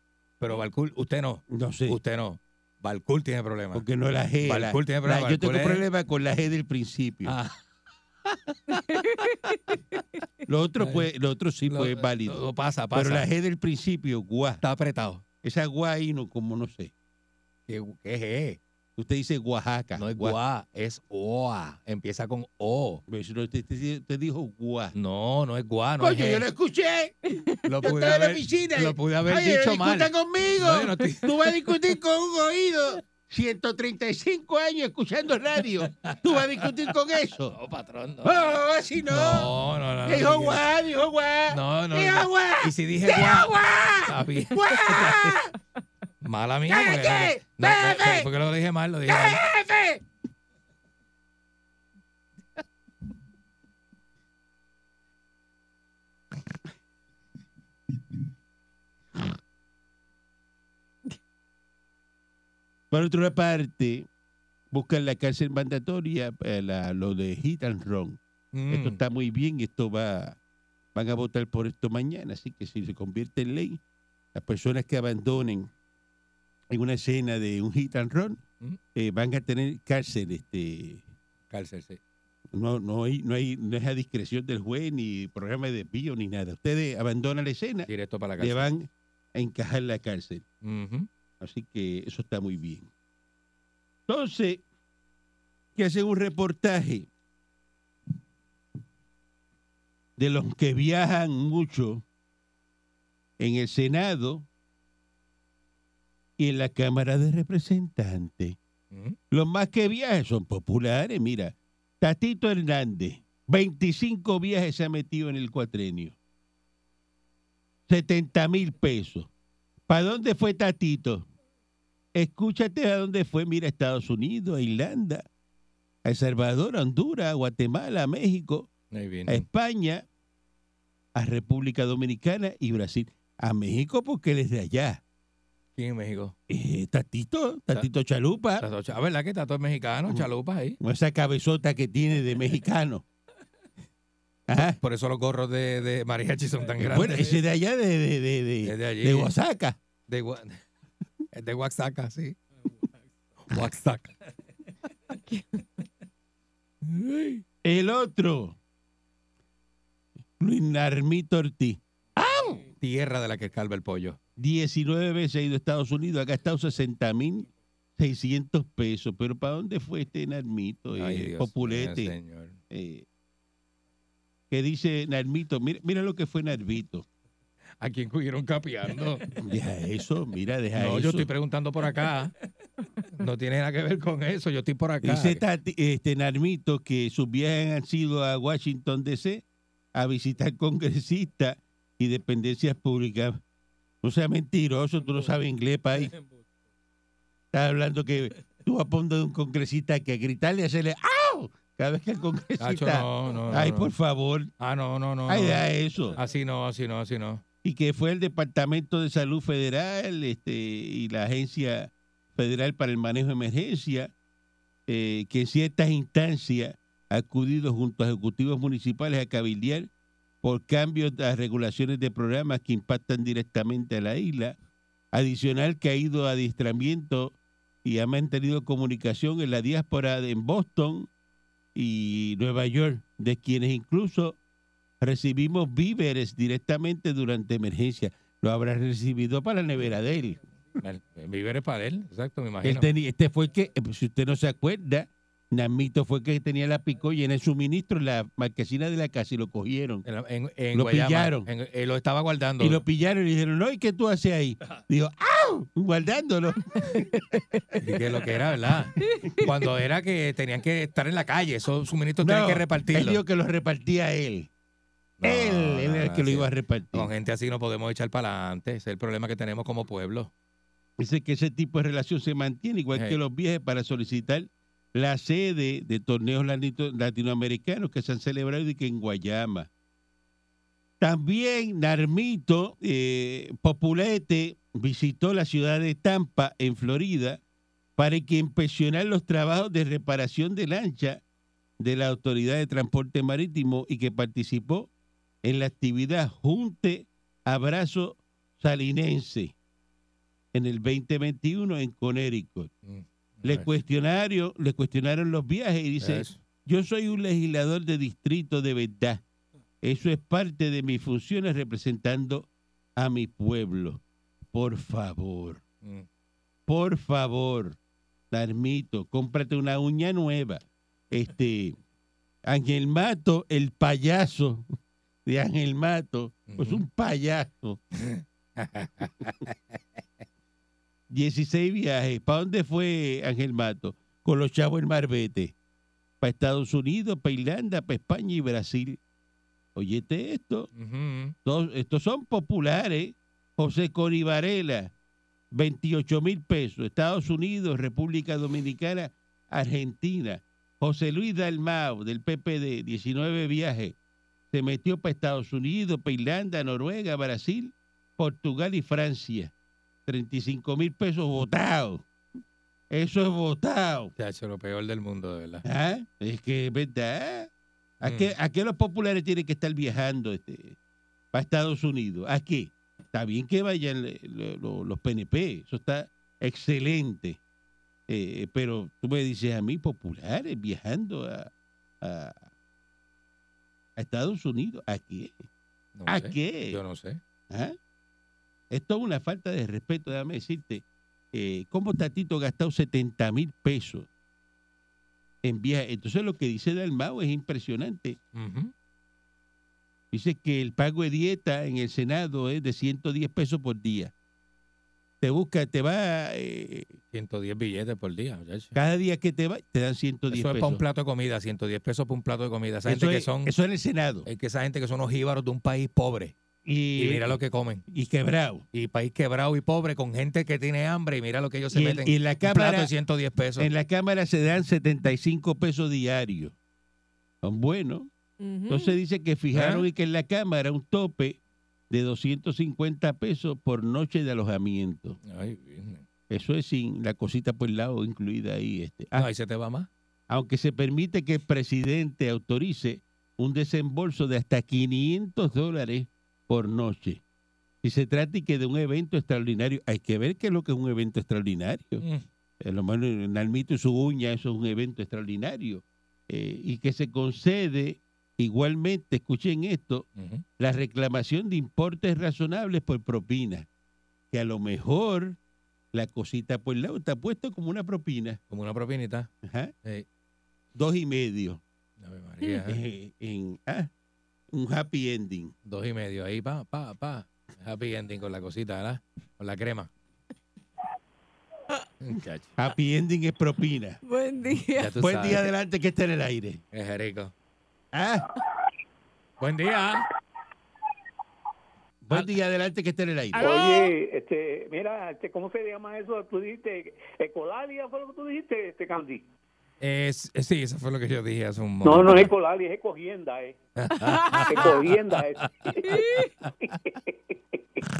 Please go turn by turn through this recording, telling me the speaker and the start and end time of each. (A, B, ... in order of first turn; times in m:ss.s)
0:00.4-0:03.8 A
0:01.5-0:02.0 B
0:03.7-0:07.4 B
0:04.4-0:05.8 A
0:07.2-0:07.6 A
0:08.5-0:09.0 A
0:08.7-0:09.8 C
0:10.5-0:14.6 B
0:10.8-0:11.1 A
0:11.7-0:13.3 A
0:14.6-0:15.2 A
0:15.4-0:16.9 B
0:17.7-0:18.6 A
0:19.0-0:20.4 B
0:20.0-0:23.0 A
0:23.1-0:25.0 B
0:25.0-0:26.5 A
0:26.0-0:37.6 B
0:27.6-0:31.4 A
0:35.9-0:36.7 A
0:37.5-0:38.6 A
0:38.2-0:39.5 B
0:39.1-0:40.6 A
0:40.0-0:45.5 B
0:41.5-0:43.5 A
0:44.1-0:45.3 A
0:46.2-0:49.4 A
0:46.7-0:48.3 B
0:49.1-0:50.0 B
1:02.9-1:04.1 B
1:04.7-1:08.2 B
1:08.5-1:09.0 A
1:08.7-1:10.4 B
1:11.0-1:13.8 B
1:14.3-1:15.7 B
1:16.7-1:18.4 B
1:19.0-1:21.0 B
1:21.5-1:22.0 A
1:22.5-1:30.4 B
1:27.9-1:28.7 A
1:30.6-1:31.1 A
1:31.4-1:32.9 B
1:34.1-1:34.6 B
1:35.8-1:37.1 B
1:40.2-1:42.0 B
1:43.4-1:44.5 B
1:46.4-1:48.6 B
1:48.9-1:49.2 A
1:49.3-1:56.2 B
1:57.9-1:59.3 B
1:59.9-2:01.3 B
2:02.2-2:05.2 B
2:06.0-2:08.7 B
2:08.9-2:09.5 A
2:09.3-2:10.0 B
2:11.2-2:15.0 B
2:15.8-2:16.4 A
2:16.5-2:18.7 B
2:18.6-2:20.8 A
2:20.8-2:23.0 B
2:24.5-2:24.8 B
2:24.6-2:27.4 A
2:26.8-2:29.8 B
2:28.6-2:29.3 A
2:30.1-2:30.6 A
2:31.3-2:32.4 A
2:33.5-2:34.1 A
2:35.2-2:35.6 C
2:36.8-2:37.4 A
2:37.6-2:38.6 B
2:40.4-2:42.6 B
2:42.7-2:44.2 A
2:44.4-2:52.2 B
2:50.9-2:52.6 A
2:52.7-2:53.1 B
2:54.5-2:57.1 B
2:57.8-2:59.3 A
2:59.4-3:01.3 B
3:00.8-3:02.3 A
3:03.2-3:05.4 A
3:05.0-3:09.4 B
3:10.0-3:13.4 B
3:14.0-3:16.1 B
3:17.5-3:24.5 B
3:22.6-3:23.9 A
3:24.6-3:25.6 A
3:25.3-3:26.2 B
3:26.2-3:27.4 A
3:27.6-3:34.1 B
3:34.9-3:39.9 B
3:40.4-3:44.6 B
3:45.1-3:51.1 B
3:51.8-3:54.4 B
3:55.0-4:00.4 B
4:00.8-4:02.9 A
4:02.6-4:10.0 B
4:10.0-4:12.8 A
4:10.7-4:11.5 B
4:12.6-4:17.2 B
4:17.8-4:23.2 A
4:22.2-4:24.5 B
4:25.2-4:30.3 A
4:25.2-4:27.1 B
4:31.0-4:39.7 B
4:41.0-4:47.4 B
4:48.0-4:51.2 B
4:51.8-4:54.9 B
4:55.4-4:59.5 B
5:00.5-5:02.7 B
5:02.8-5:03.7 A
5:03.4-5:09.2 B
5:06.0-5:06.4 A
5:09.8-5:14.0 B
5:14.5-5:15.6 B
5:16.7-5:17.8 B
5:18.3-5:21.8 B
5:22.5-5:24.7 B
5:25.3-5:27.8 B
5:26.5-5:26.8 A
5:28.0-5:29.8 A
5:31.1-5:35.5 B
5:36.2-5:39.0 B
5:39.8-5:40.7 B
5:40.8-5:41.4 A
5:41.4-5:44.9 B
5:45.5-5:54.0 B
5:54.5-5:59.5 B
6:00.1-6:02.1 B
6:02.9-6:04.1 B
6:04.2-6:05.6 A
6:05.6-6:07.5 B
6:08.0-6:10.8 B
6:08.0-6:08.3 A
6:11.3-6:17.4 B
6:18.1-6:21.5 B
6:22.0-6:22.5 B
6:24.0-6:25.4 B
6:26.0-6:27.2 A
6:26.1-6:26.8 B
6:27.5-6:27.8 B
6:28.7-6:34.1 B
6:35.4-6:38.2 B
6:38.3-6:38.7 A
6:40.1-6:44.1 B
6:45.2-6:47.0 B
6:47.1-6:48.8 A
6:48.7-6:50.8 B
6:50.3-6:53.5 A
6:52.8-6:54.3 B
6:54.3-6:56.3 A
6:56.6-6:57.4 B
6:57.0-6:57.8 A
6:57.9-6:58.6 B
6:58.7-7:03.7 A
7:01.7-7:02.9 B
7:03.6-7:06.5 B
7:07.4-7:08.1 B
7:08.4-7:09.0 C
7:08.7-7:11.4 B
7:09.5-7:09.9 A
7:11.9-7:15.2 B
7:15.2-7:16.0 A
7:16.3-7:19.3 B
7:19.2-7:19.9 A
7:20.3-7:27.2 B
7:27.8-7:32.0 B
7:32.6-7:40.1 B
7:40.2-7:40.4 A
7:40.6-7:43.7 B
7:44.3-7:45.4 B
7:45.9-7:48.4 B
7:48.5-7:49.3 A
7:49.4-7:49.7 B
7:50.8-7:51.6 B
7:52.0-7:52.8 A
7:52.6-7:53.9 B
7:54.5-7:55.5 B
7:55.7-7:59.9 A
8:02.0-8:02.6 A
8:02.6-8:04.0 B
8:04.0-8:05.0 C
8:04.8-8:05.4 A
8:05.0-8:06.6 B
8:06.7-8:07.3 A
8:07.9-8:08.3 B
8:09.4-8:10.1 A
8:12.0-8:13.5 B
8:13.4-8:13.9 C
8:13.4-8:19.2 D
8:19.8-8:22.3 A
8:21.8-8:23.6 D
8:23.8-8:25.9 A
8:24.0-8:24.6 C
8:24.5-8:27.6 D
8:25.9-8:26.3 C